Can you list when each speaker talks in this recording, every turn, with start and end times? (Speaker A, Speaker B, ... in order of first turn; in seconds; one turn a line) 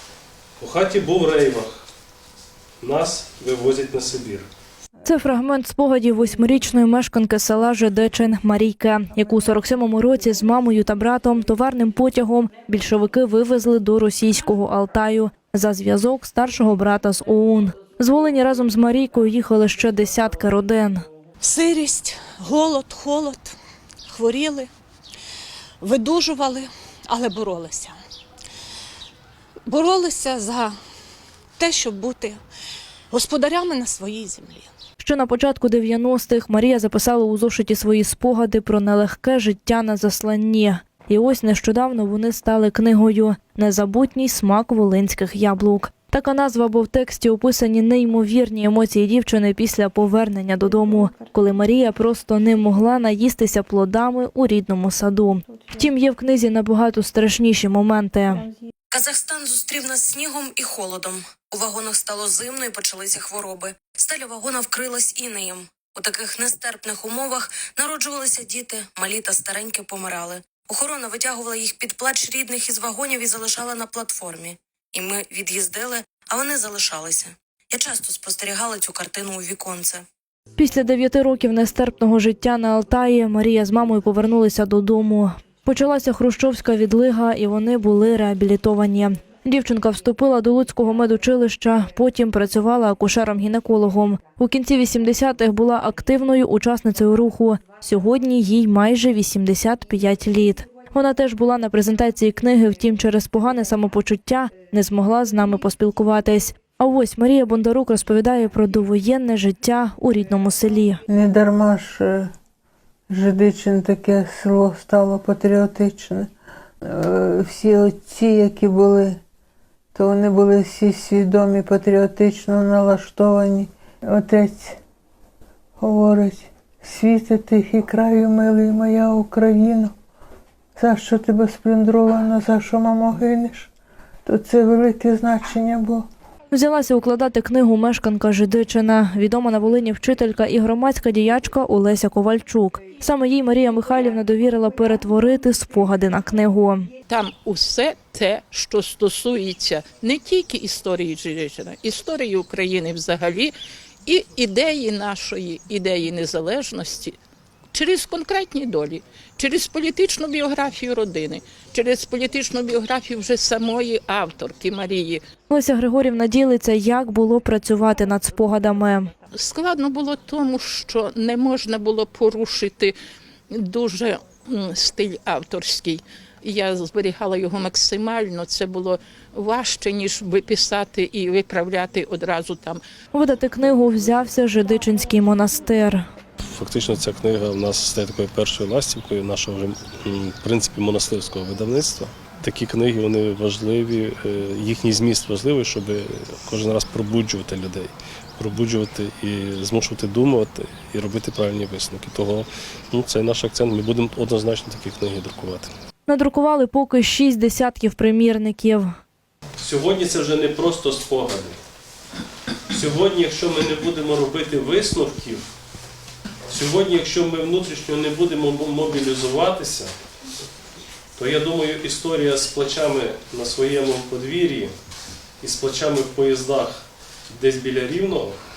Speaker A: 0.6-1.7
Speaker A: 2.8-4.4
Speaker B: 5.0-21.0
Speaker C: 21.5-23.5
Speaker C: 24.1-24.7
Speaker C: 26.0-26.7
Speaker C: 27.3-27.9
Speaker C: 29.7-30.7
Speaker C: 31.6-32.4
Speaker C: 33.2-34.7
Speaker B: 35.0-58.5
Speaker D: 58.9-80.0
Speaker B: 80.5-111.0
Speaker E: 111.1-112.3
Speaker E: 113.1-116.3
Speaker E: 116.8-119.2
Speaker E: 119.9-124.8
Speaker E: 125.8-129.9
Speaker E: 130.8-133.7
Speaker E: 134.2-136.1
Speaker B: 136.5-146.9
Speaker F: 147.1-153.5
Speaker F: 154.0-157.2
Speaker F: 157.7-165.2
Speaker B: 165.5-169.1
Speaker F: 169.3-172.9
Speaker F: 173.5-182.8
Speaker B: 183.1-186.0
Speaker A: 186.4-205.7
Speaker B: 206.1-209.0
Speaker A: 209.6-211.6
Speaker A: 212.7-215.4
Speaker A: 216.5-219.9
Speaker A: 221.2-224.7
Speaker A: 225.4-228.4